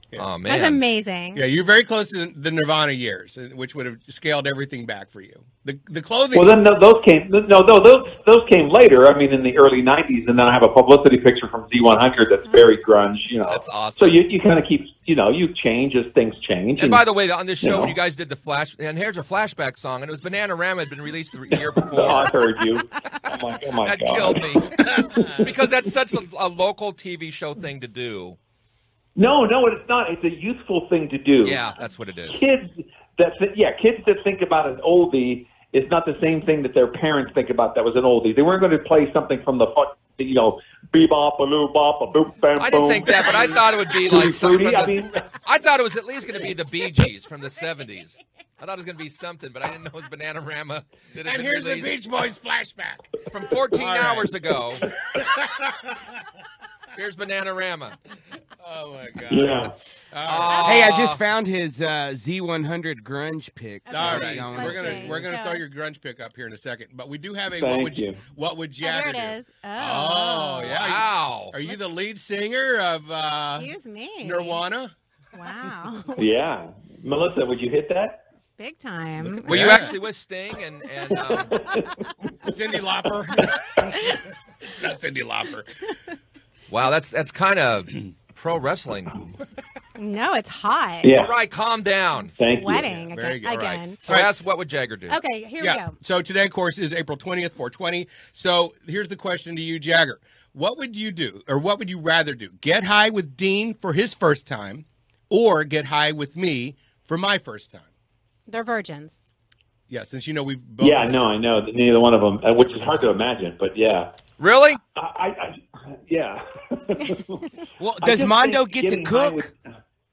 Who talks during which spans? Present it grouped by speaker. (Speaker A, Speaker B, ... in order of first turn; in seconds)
Speaker A: 0.2-0.8, 13.5-14.2, 16.8-22.3, 23.8-28.4, 31.4-32.5, 42.6-52.0, 53.3-54.9, 57.0-58.0, 60.2-61.2, 64.3-64.6, 70.7-71.5, 79.5-81.7, 86.7-89.1, 91.1-92.3, 93.6-95.2, 114.4-114.8
Speaker B: 0.5-1.4, 63.9-65.6, 68.8-70.8, 73.6-74.6, 75.3-76.3, 78.6-79.9, 90.0-91.1, 92.2-94.0, 95.1-96.0, 108.5-109.2
Speaker C: 1.3-6.7, 51.2-53.1, 53.7-54.3, 55.1-56.1, 58.6-60.9, 63.9-74.9, 79.2-79.9, 82.5-85.7, 92.9-94.3, 95.6-107.9, 109.9-111.3
Speaker D: 6.3-17.0, 17.6-17.9, 21.8-24.6, 29.2-31.6, 32.3-45.2, 59.3-59.7, 67.5-68.2, 76.2-78.2, 81.1-82.0, 91.0-91.3, 92.4-92.9, 110.8-114.1, 115.0-117.4, 118.0-119.5
Speaker E: 60.6-65.3, 117.8-119.5